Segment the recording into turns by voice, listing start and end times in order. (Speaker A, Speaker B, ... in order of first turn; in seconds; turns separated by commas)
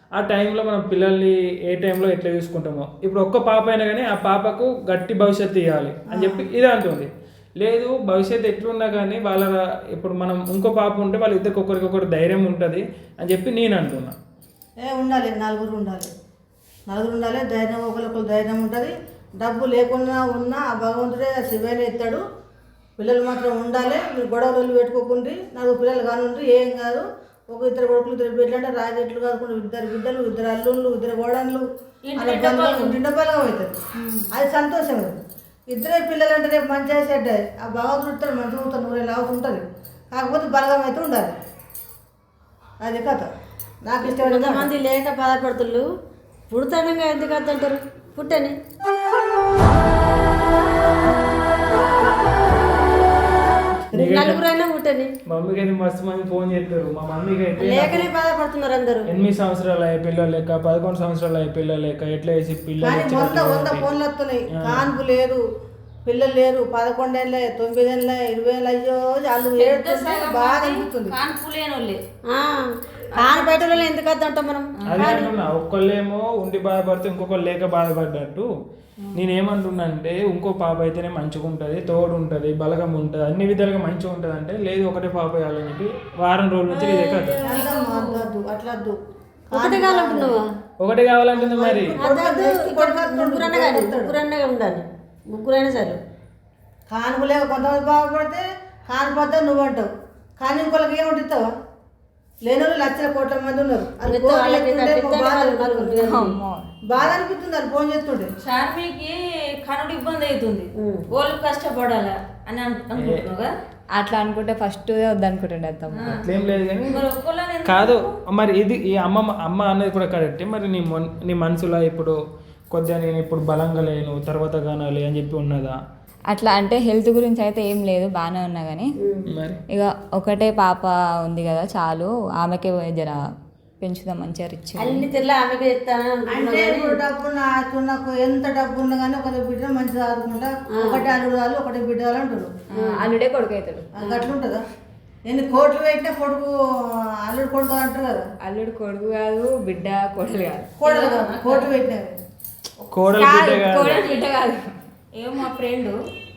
Speaker A: 0.1-14.2, Speaker B: 6.1-6.4, Speaker B: 14.8-16.1, Speaker B: 16.9-22.2, Speaker B: 23.0-33.8, Speaker C: 32.1-33.0, Speaker C: 34.0-34.3, Speaker B: 34.3-35.2, Speaker B: 35.7-41.4, Speaker B: 42.8-43.3, Speaker B: 43.8-44.7, Speaker D: 44.0-45.9, Speaker D: 46.5-48.6, Speaker A: 53.9-54.4, Speaker D: 54.0-55.1, Speaker A: 55.3-58.1, Speaker D: 57.6-59.1, Speaker A: 59.1-63.8, Speaker B: 62.8-65.4, Speaker A: 64.5-64.9, Speaker B: 66.0-71.2, Speaker C: 69.6-72.0, Speaker D: 72.2-75.2, Speaker C: 73.2-73.9, Speaker A: 74.9-78.5, Speaker C: 75.0-75.3, Speaker A: 79.1-87.4, Speaker D: 86.7-87.3, Speaker C: 87.4-88.3, Speaker B: 87.4-89.0, Speaker B: 89.5-90.4, Speaker D: 89.5-90.5, Speaker A: 90.8-92.0, Speaker B: 91.3-94.1, Speaker D: 92.0-96.0, Speaker B: 96.9-101.5, Speaker B: 102.4-106.0, Speaker D: 104.0-106.3, Speaker E: 106.0-106.7, Speaker B: 106.9-108.3, Speaker C: 108.4-113.5, Speaker D: 110.8-111.1, Speaker E: 114.0-116.2, Speaker C: 115.9-116.2, Speaker A: 116.1-117.0, Speaker C: 116.9-118.1, Speaker A: 117.7-122.2, Speaker A: 122.7-125.8, Speaker E: 126.3-128.9, Speaker A: 129.3-129.6, Speaker E: 129.7-133.2, Speaker E: 133.8-135.1, Speaker D: 134.8-137.0, Speaker B: 136.3-142.5, Speaker D: 140.7-141.1, Speaker E: 142.7-143.9, Speaker D: 142.8-143.1, Speaker B: 144.0-144.6, Speaker D: 144.0-144.3, Speaker B: 145.3-146.5, Speaker B: 147.2-148.2, Speaker E: 148.4-150.7, Speaker B: 150.8-152.2, Speaker C: 150.8-151.7, Speaker A: 152.9-154.0, Speaker E: 153.1-154.6, Speaker C: 153.8-154.2, Speaker C: 155.2-155.9